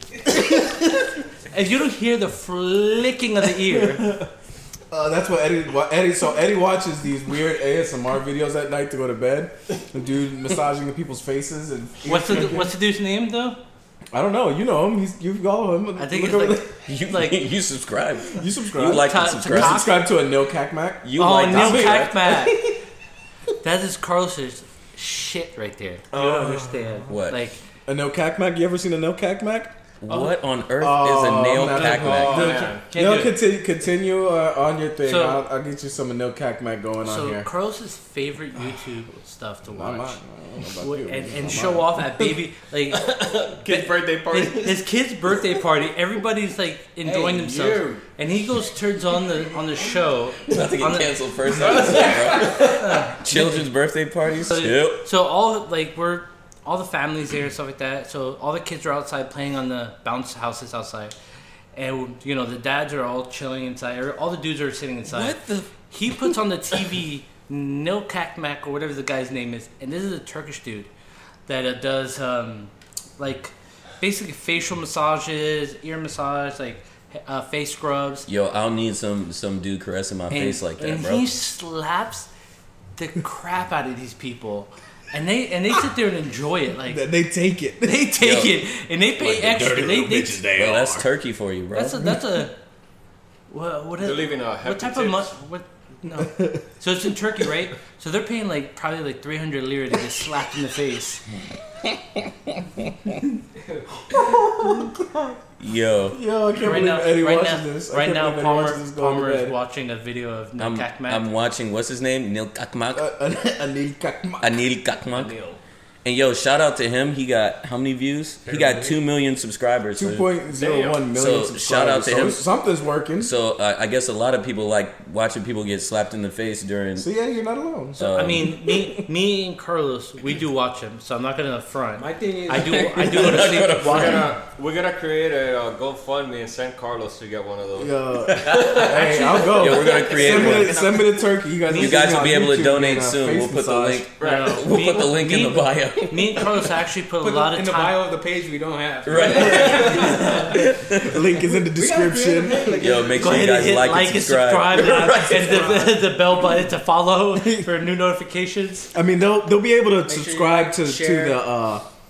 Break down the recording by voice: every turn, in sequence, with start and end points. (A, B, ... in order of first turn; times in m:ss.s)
0:00.5-0:00.7 A
0:01.5-0:04.2 A
0:03.7-0:04.3 B
0:04.9-0:12.7 B
0:12.0-0:13.6 A
0:14.1-0:16.7 B
0:16.0-0:17.5 A
0:16.8-0:19.9 C
0:18.3-0:22.0 B
0:18.9-0:20.1 A
0:21.0-0:22.3 C
0:21.2-0:22.6 A
0:23.6-0:27.6 A
0:26.1-0:27.0 B
0:27.1-0:27.4 C
0:27.9-0:29.7 B
0:30.0-0:32.6 C
0:30.1-0:30.4 A
0:30.8-0:37.5 B
0:31.8-0:32.9 D
0:32.7-0:33.4 A
0:35.0-0:35.4 A
0:37.0-0:40.2 A
0:39.7-0:42.0 B
0:40.8-0:53.7 A
0:42.9-0:44.8 D
0:47.0-0:48.0 E
0:50.5-0:55.0 C
0:51.6-0:52.8 D
0:54.4-1:01.1 A
1:01.7-1:10.9 A
1:05.1-1:05.7 C
1:11.5-1:18.3 A
1:18.3-1:21.3 C
1:20.3-1:22.3 A
1:23.0-1:27.1 A
1:26.9-1:28.0 B
1:27.8-1:30.4 A
1:28.2-1:28.6 C
1:29.2-1:31.1 B
1:29.2-1:29.7 C
1:30.5-1:32.1 C
1:31.7-1:32.5 A
1:33.5-1:41.2 A
1:34.0-1:35.3 D
1:44.1-1:45.4 B
1:45.6-1:46.2 C
1:46.1-1:49.6 B
1:46.6-1:51.2 A
1:50.6-1:53.1 C
1:52.9-1:54.6 B
1:54.4-1:55.3 C
1:55.1-1:55.6 D
1:56.0-2:00.3 C
1:58.5-1:58.9 D
2:00.0-2:03.3 B
2:00.5-2:01.0 D
2:01.1-2:02.5 C
2:03.2-2:07.1 C
2:07.0-2:08.0 B
2:08.0-2:09.0 C
2:08.0-2:14.2 A
2:12.0-2:12.9 E
2:12.5-2:14.3 C
2:13.7-2:21.1 D
2:17.8-2:24.1 B
2:18.3-2:21.0 C
2:21.7-2:26.5 C
2:24.2-2:24.7 D
2:24.2-2:28.0 A
2:27.2-2:30.6 E
2:29.0-2:31.3 C
2:29.5-2:30.6 A
2:31.0-2:32.8 B
2:31.7-2:33.6 E
2:32.8-2:35.8 C
2:33.2-2:38.9 A
2:35.3-2:36.0 E
2:38.9-2:41.8 B
2:40.0-2:41.4 E